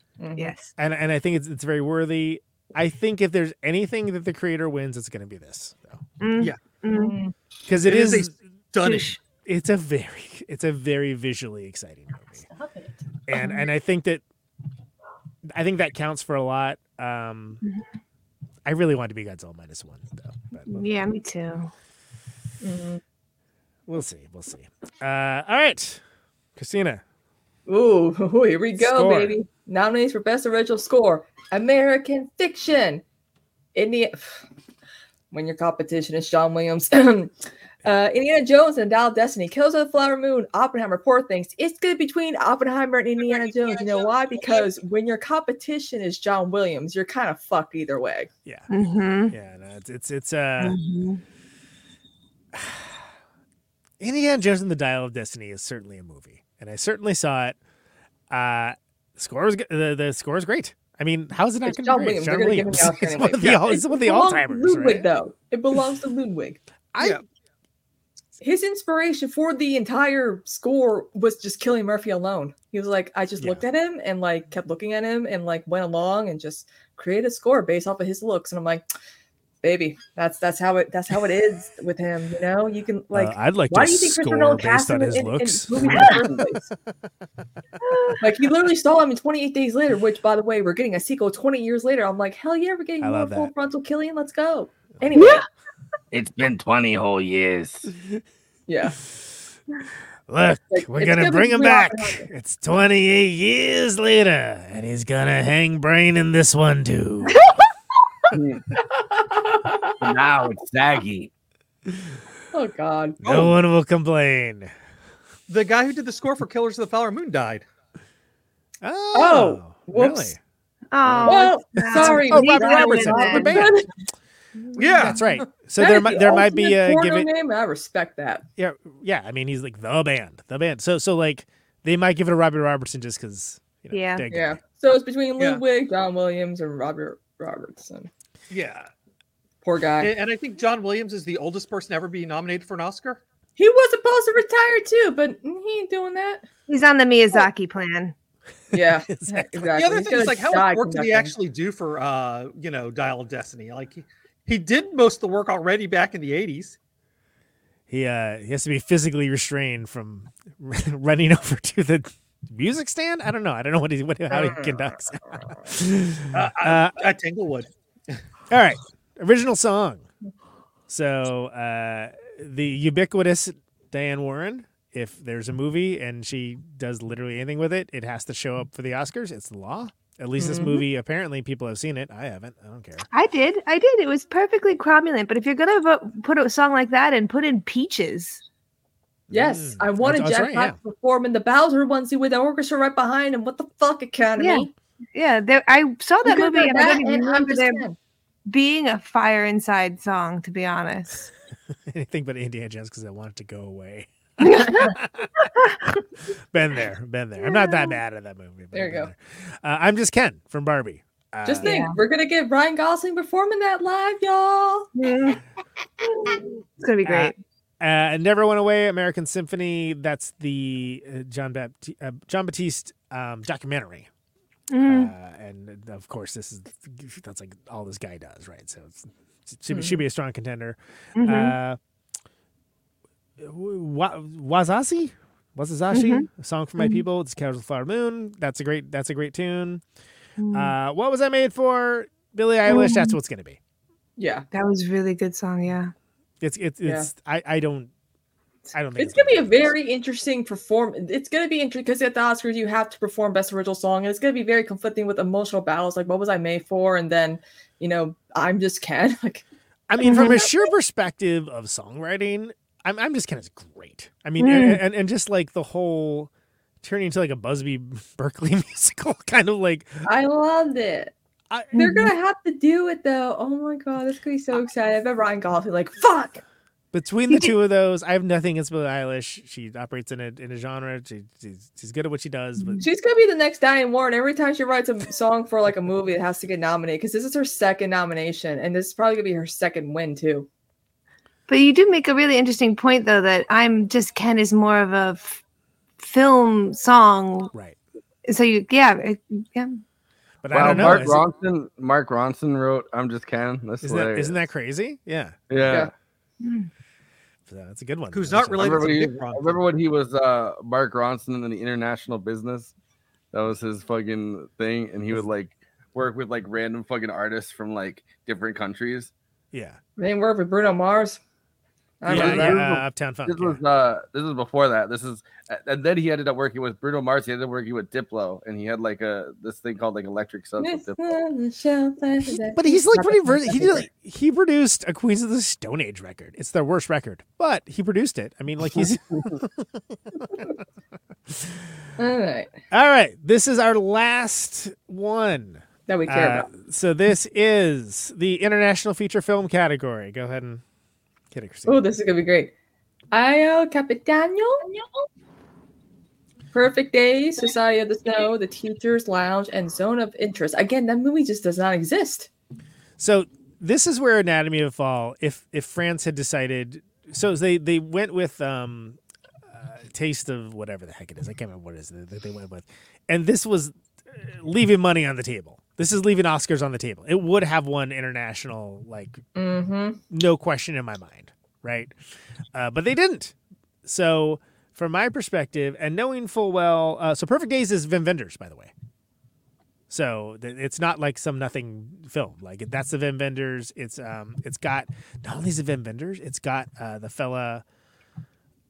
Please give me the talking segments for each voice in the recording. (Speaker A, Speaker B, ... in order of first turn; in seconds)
Speaker A: 0.2-0.5, 6.9-7.3, 12.4-12.9, 22.6-23.0, 27.7-33.0, 33.7-34.4, 35.3-48.3, 61.6-66.6, 68.4-78.8, 79.6-86.7, 88.2-95.4, 98.7-99.0, 100.7-102.3, 108.9-110.0, 112.5-113.2, 119.1-120.3, 121.2-123.9, 125.8-128.4, 134.3-138.1, 139.6-140.1, 143.6-146.4, 148.7-151.3, 164.3-165.7, 180.4-180.8, 189.3-194.7, 196.2-198.0, 208.7-209.1, 211.4-214.9, 229.7-230.0, 244.2-244.4, 249.0-259.4, 260.1-260.4, 270.0-271.1, 271.7-276.4, 282.8-290.5, 320.0-321.2, 322.0-322.6, 330.6-333.9, 342.0-342.5, 345.9-346.5, 351.7-352.5, 353.1-354.7, 356.5-362.3, 379.3-380.0
Speaker B: 0.4-0.7, 6.2-7.1, 8.8-9.2, 13.3-13.6, 20.7-21.7, 48.7-49.3, 50.6-51.2, 87.8-88.2, 95.1-95.4, 120.9-123.7, 133.9-134.2, 146.7-148.1, 183.1-188.4, 194.4-197.8, 198.4-201.3, 204.4-204.9, 207.4-207.9, 211.6-211.9, 214.9-215.4, 216.1-217.4, 224.7-225.1, 231.2-231.5, 235.9-236.3, 236.8-237.0, 240.4-240.7, 242.7-243.2, 244.5-245.9, 260.0-260.4, 264.4-264.8, 271.7-272.1, 282.6-282.9, 291.5-295.4, 296.0-297.5, 298.2-299.8, 306.4-306.7
Speaker C: 0.8-6.0, 7.7-8.3, 9.4-12.4, 13.3-14.2, 15.5-17.6, 18.6-20.9, 23.9-26.0, 26.6-27.0, 28.8-29.4, 49.3-50.8, 52.5-52.9, 54.0-57.5, 58.3-65.1, 66.9-67.2, 83.1-86.4, 93.0-93.5, 100.3-107.5, 113.2-114.7, 118.8-120.4, 121.0-123.8, 125.0-127.3, 128.6-134.6, 149.1-149.7, 157.9-167.0, 168.5-170.0, 170.9-183.1, 189.3-190.8, 201.9-205.9, 206.5-211.8, 217.0-224.1, 224.8-231.8, 233.4-239.8, 240.5-243.6, 246.4-247.9, 248.7-249.7, 259.9-266.3, 266.8-270.1, 271.5-271.8, 276.9-282.8, 300.4-301.2, 303.8-305.4, 307.5-308.9, 319.5-319.8, 322.1-323.6, 332.5-340.5, 341.3-341.6, 342.7-350.6, 351.3-351.9, 363.0-369.0, 369.5-379.2, 380.1-381.9, 382.5-388.7, 389.9-397.6
Speaker D: 7.8-9.1, 113.2-113.5, 115.5-117.7, 124.8-125.3, 138.5-138.9, 140.0-143.2, 149.7-156.8, 166.3-167.7, 308.1-309.6
Speaker E: 96.1-97.9, 108.3-108.7, 110.0-111.3, 300.5-304.4, 305.5-305.9, 308.6-312.7, 313.3-319.1, 322.1-331.1